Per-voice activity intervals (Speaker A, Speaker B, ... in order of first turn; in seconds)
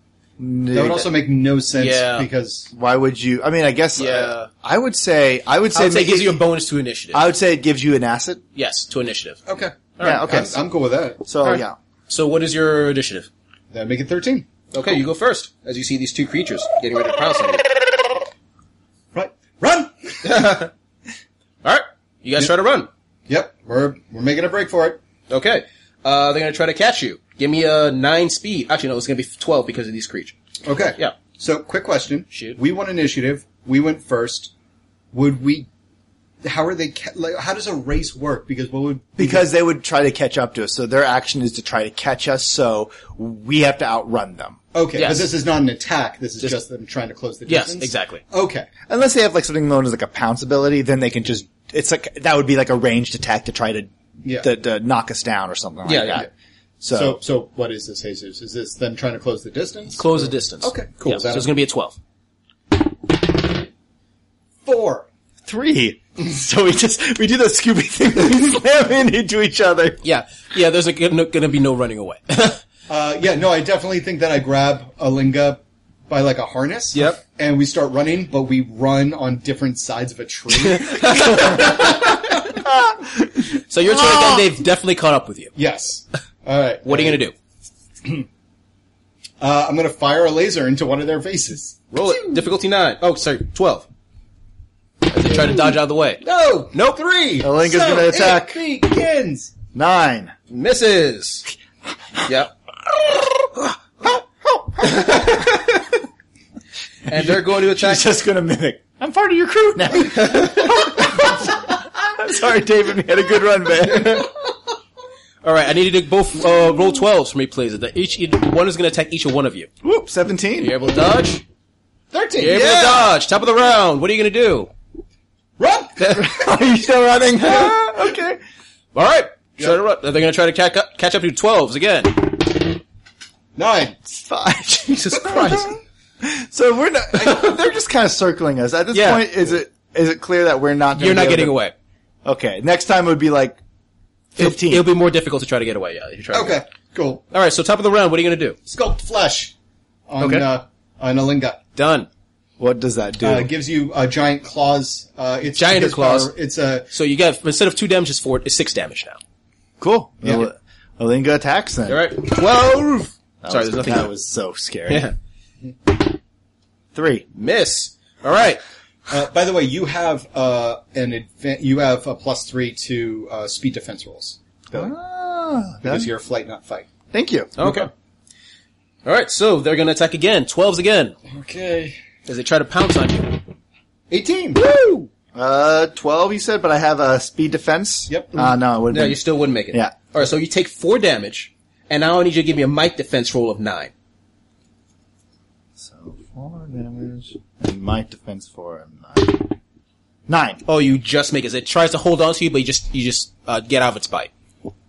Speaker A: 0.4-1.1, 2.7-6.4, 7.1-8.4, 10.0-10.6, 11.2-11.8, 39.2-44.6, 48.9-56.3, 56.8-57.2, 65.5-70.0, 82.7-83.3, 97.4-98.6, 99.7-100.3, 103.2-105.7, 107.1-114.3, 119.8-120.8, 126.1-128.4, 134.1-141.6, 142.2-143.6, 144.3-144.9, 152.6-153.5, 159.8-162.3, 163.4-165.1, 166.9-167.3, 174.7-176.1, 177.1-177.6, 184.6-189.9, 195.8-199.6, 200.3-200.6
Speaker B: 0.7-2.7, 9.5-11.2, 13.7-14.5, 19.1-20.4, 23.3-25.0, 30.6-34.5, 35.1-35.7, 36.4-39.5, 44.7-48.7, 54.2-54.5, 56.9-61.5, 64.6-65.1, 72.9-82.6, 85.6-87.2, 89.4-92.4, 96.2-99.5, 122.1-123.1, 125.6-126.3, 133.6-134.0, 135.2-135.7, 146.3-147.2, 148.7-149.5, 150.1-151.6, 153.2-156.9, 169.1-174.9, 175.8-176.9, 181.3-182.0, 184.1-184.6, 188.1-188.3
Speaker C: 1.8-2.3, 4.0-4.5, 5.7-7.3, 8.6-9.4, 11.4-13.3, 14.7-17.6, 20.2-20.7, 21.6-22.9, 25.3-30.4, 32.3-32.6, 45.0-45.3, 47.5-48.2, 55.9-56.2, 60.0-62.0, 70.0-72.6, 76.9-77.2, 80.7-81.8, 83.7-85.5, 86.8-87.3, 91.9-93.9, 95.1-97.0, 100.5-101.5, 102.3-102.5, 104.9-105.6, 107.1-108.2, 110.2-110.6, 115.4-119.7, 120.6-121.4, 122.4-124.7, 127.4-127.8, 128.9-132.7, 135.2-135.6, 138.9-139.3, 140.9-141.8, 144.4-146.6, 147.3-148.6, 150.2-150.5, 151.8-152.1, 155.6-156.3, 156.9-159.2, 161.9-164.1, 164.9-165.2, 167.3-168.6, 177.6-177.9, 179.1-181.2, 182.3-183.5, 188.4-193.9, 200.7-204.3